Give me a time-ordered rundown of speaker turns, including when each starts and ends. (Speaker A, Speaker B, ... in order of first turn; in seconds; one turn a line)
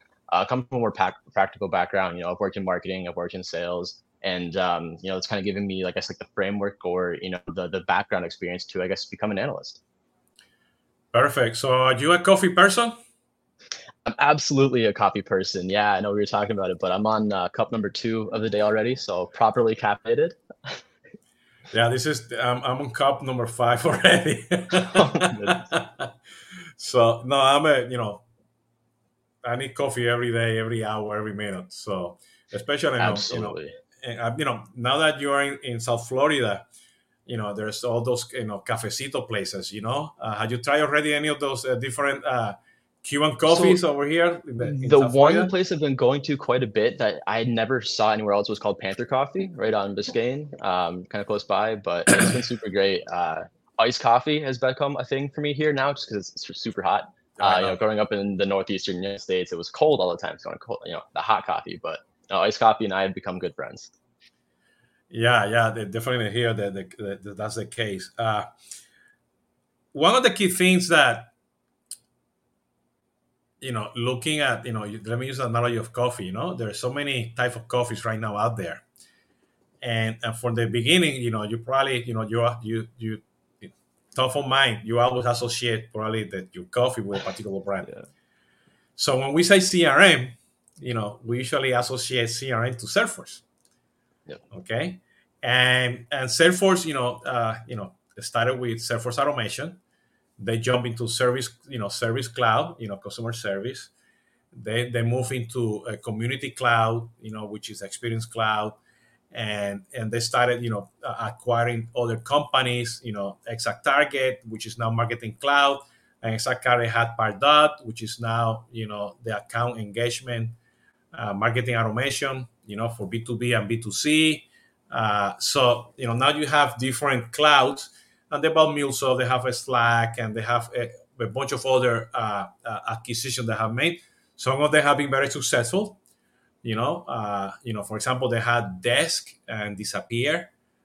Speaker A: 0.3-9.8
Speaker B: 11.1-12.9
Speaker A: 14.0-20.7
Speaker B: 21.7-26.1
Speaker A: 24.8-25.6
Speaker B: 26.8-28.2
Speaker B: 29.4-36.6
Speaker A: 33.0-33.7
Speaker B: 37.2-45.5
Speaker A: 43.5-43.8
Speaker A: 44.6-63.9
Speaker B: 57.4-57.8
Speaker B: 65.1-68.5
Speaker B: 69.9-71.3
Speaker B: 73.6-78.8
Speaker B: 79.8-87.9
Speaker B: 89.0-93.4
Speaker B: 94.5-99.8
Speaker B: 100.4-103.9
Speaker B: 104.5-108.8
Speaker B: 109.3-120.5
Speaker B: 121.1-136.0
Speaker B: 136.6-140.5